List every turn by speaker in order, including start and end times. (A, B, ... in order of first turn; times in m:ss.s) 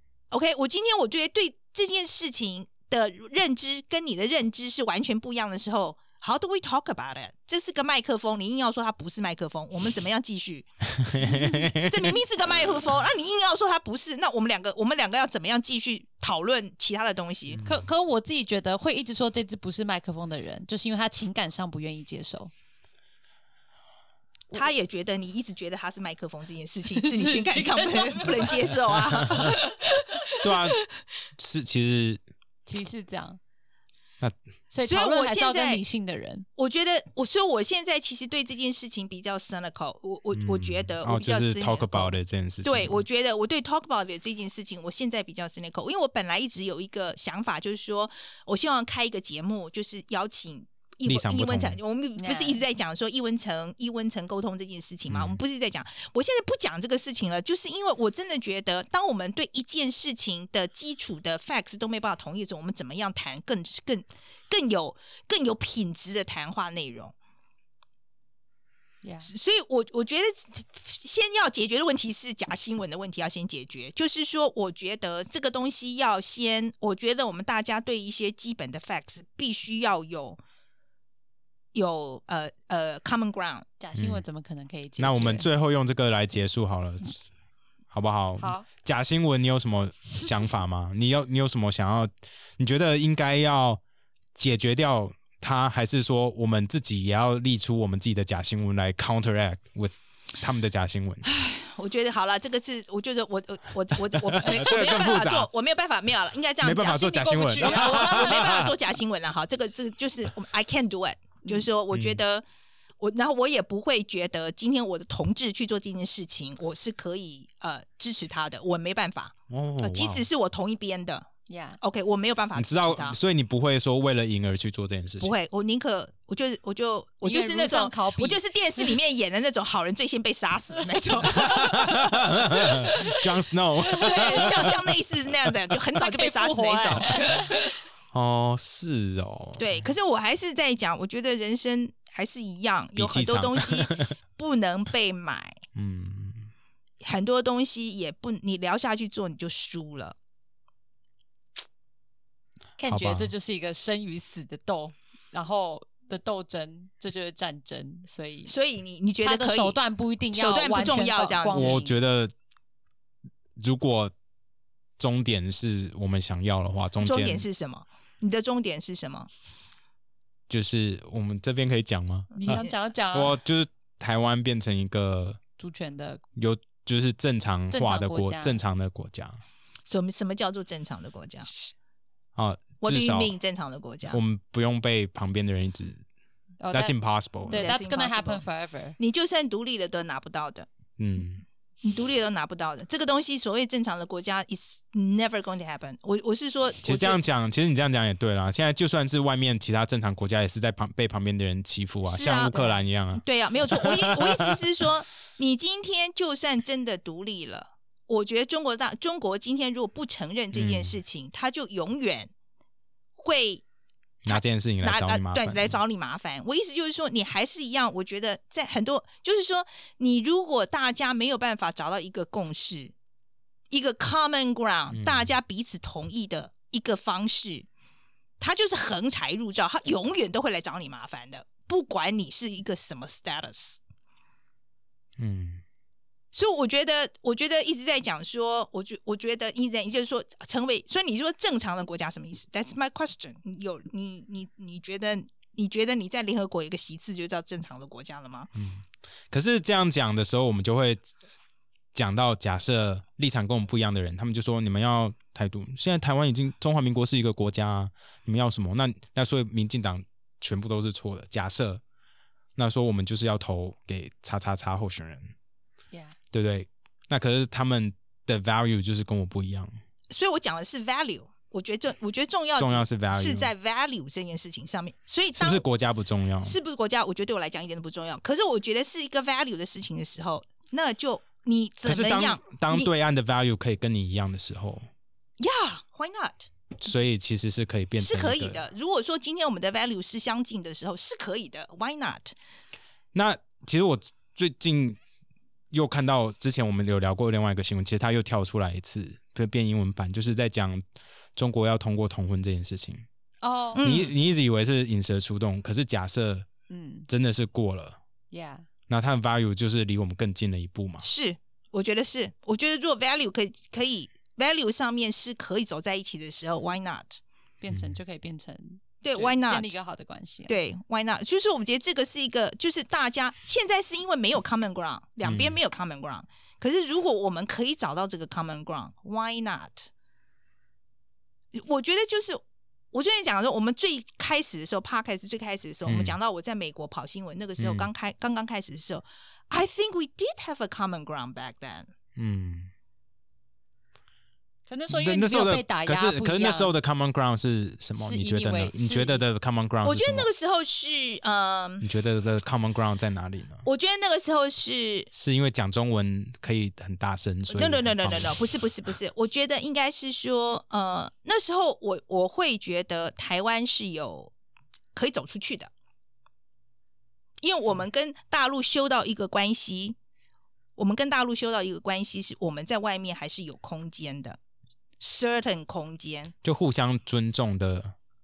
0:00.3-0:17.6 A
0:11.0-0:12.2 B
0:17.5-0:17.9 B
0:17.6-0:22.5 C
0:24.5-0:30.5 A
0:26.9-0:30.3 C
0:30.4-0:30.8 B
0:31.4-0:32.2 B
0:32.6-0:33.4 C
0:34.7-0:36.5 C
0:34.8-0:35.8 A
0:36.6-1:07.1 A
0:40.3-0:43.0 B
0:51.0-0:51.8 B
0:52.2-0:52.6 C
0:55.1-0:55.4 B
1:09.0-1:09.3 C
1:09.2-1:20.4 A
1:21.7-1:23.6 A
1:23.8-1:25.5 C
1:23.9-1:24.2 B
1:25.0-1:27.2 B
1:27.9-1:33.8 B
1:28.4-1:28.7 C
1:34.4-1:41.2 B
1:41.2-1:52.4 A
1:44.1-1:45.5 B
1:46.6-1:48.7 B
1:47.1-1:48.6 C
1:51.9-1:52.2 B
1:53.0-2:01.3 A
1:59.5-2:00.2 B
2:01.5-2:01.8 C
2:01.8-2:03.2 A
2:02.5-2:05.3 B
2:05.2-2:13.2 A
2:07.2-2:08.9 C
2:11.2-2:14.8 B
2:13.9-2:17.5 A
2:14.1-2:14.5 C
2:16.0-2:17.7 C
2:18.1-2:19.9 B
2:19.6-2:25.6 A
2:23.0-2:24.1 B
2:25.7-2:26.5 B
2:27.0-2:30.2 A
2:32.8-2:38.5 C
2:32.8-2:33.3 B
2:38.5-2:39.8 A
2:39.2-2:41.9 C
2:40.3-2:41.8 A
2:41.5-2:42.3 B
2:43.6-2:44.1 B
2:45.0-2:47.4 B
2:47.0-2:49.3 A
2:50.5-2:55.4 B
2:52.3-2:52.7 A
2:52.4-2:53.4 C
2:55.6-2:56.2 C
2:56.4-2:59.4 B
2:57.7-2:58.6 C
2:59.9-3:01.5 A
3:02.4-3:03.3 B
3:02.8-3:04.2 A
3:04.1-3:06.0 B
3:06.6-3:06.9 C
3:06.7-3:07.7 B
3:07.5-3:09.0 C
3:07.5-3:08.4 A
3:09.0-3:10.7 A
3:11.0-3:11.4 B
3:11.8-3:17.2 A
3:16.8-3:24.6 B
3:22.0-3:32.3 A
3:30.5-3:31.0 B
3:33.2-3:33.6 A
3:34.2-3:35.8 B
3:34.3-3:42.9 A
3:43.7-3:47.7 A
3:44.9-3:45.3 B
3:48.4-3:53.8 A
3:55.2-3:55.6 B
3:56.3-4:08.5 A
4:08.5-4:11.0 B
4:11.9-4:21.8 B
4:22.6-4:25.3 B
4:26.3-4:29.7 B
4:30.1-4:35.6 A
4:32.6-4:33.5 B
4:35.3-4:36.6 B
4:36.4-4:42.9 A
4:41.8-4:44.9 B
4:45.4-4:46.5 A
4:46.8-4:48.6 B
4:48.0-4:52.3 A
4:53.1-4:55.0 B
4:55.7-5:00.8 B
5:01.4-5:03.0 B
5:03.4-5:03.8 C
5:03.7-5:04.1 A
5:03.8-5:06.5 B
5:06.7-5:07.1 C
5:07.1-5:08.0 B
5:08.3-5:08.6 C
5:08.9-5:11.0 B
5:11.0-5:17.2 A
5:17.6-5:20.5 C
5:17.7-5:18.0 B
5:19.0-5:19.7 A
5:20.5-5:29.9 A
5:25.2-5:25.6 B
5:31.5-5:41.9 A
5:35.8-5:36.2 B
5:37.6-5:37.9 B
5:42.2-5:42.7 B
5:44.7-5:46.7 C
5:44.9-5:50.3 B
5:48.0-5:49.2 C
5:49.8-5:51.8 A
5:51.8-5:53.6 B
5:53.6-5:55.1 A
5:55.1-5:58.4 B
5:57.5-6:04.3 A
6:04.9-6:05.7 A
6:07.4-6:10.0 A
6:10.8-6:14.4 A
6:15.0-6:16.3 A
6:16.4-6:17.9 B